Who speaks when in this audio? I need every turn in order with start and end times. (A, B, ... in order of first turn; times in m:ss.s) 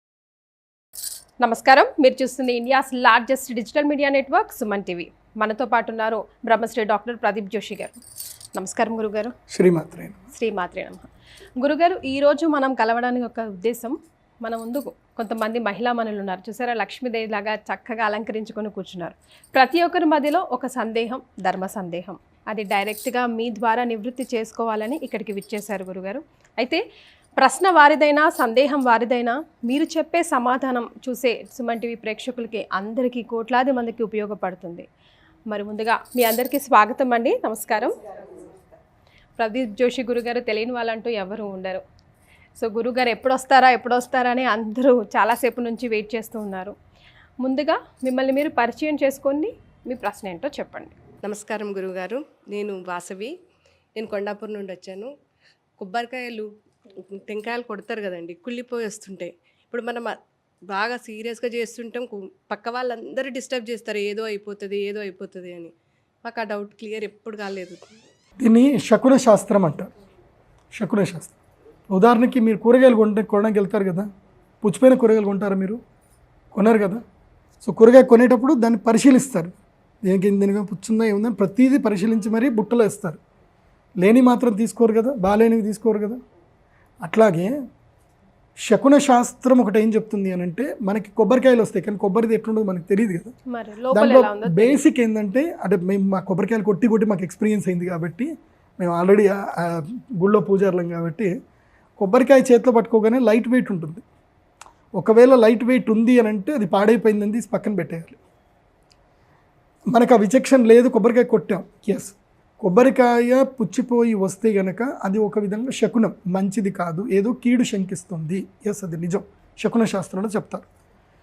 0:01.4-0:08.0 A
0:08.6-0:09.3 A
0:09.5-0:10.2 B
0:10.3-0:11.0 A
0:11.6-0:26.8 A
0:27.4-0:34.9 A
0:35.5-0:37.9 A
0:39.4-0:41.8 A
0:42.6-0:46.7 A
0:47.4-0:51.0 A
0:51.2-0:53.3 C
0:54.0-0:55.1 C
0:55.8-0:56.5 C
0:57.1-1:00.1 C
1:00.7-1:05.7 C
1:06.2-1:07.9 C
1:08.4-1:09.9 B
1:10.7-1:11.4 B
1:11.9-1:14.1 B
1:14.6-1:15.8 B
1:16.5-1:17.0 B
1:17.6-1:19.5 B
1:20.0-1:23.2 B
1:24.0-1:26.2 B
1:27.0-1:27.5 B
1:28.7-1:33.3 B
1:33.5-1:34.8 A
1:33.9-1:41.3 B
1:42.0-1:44.0 B
1:45.0-1:48.2 B
1:49.9-2:00.6 B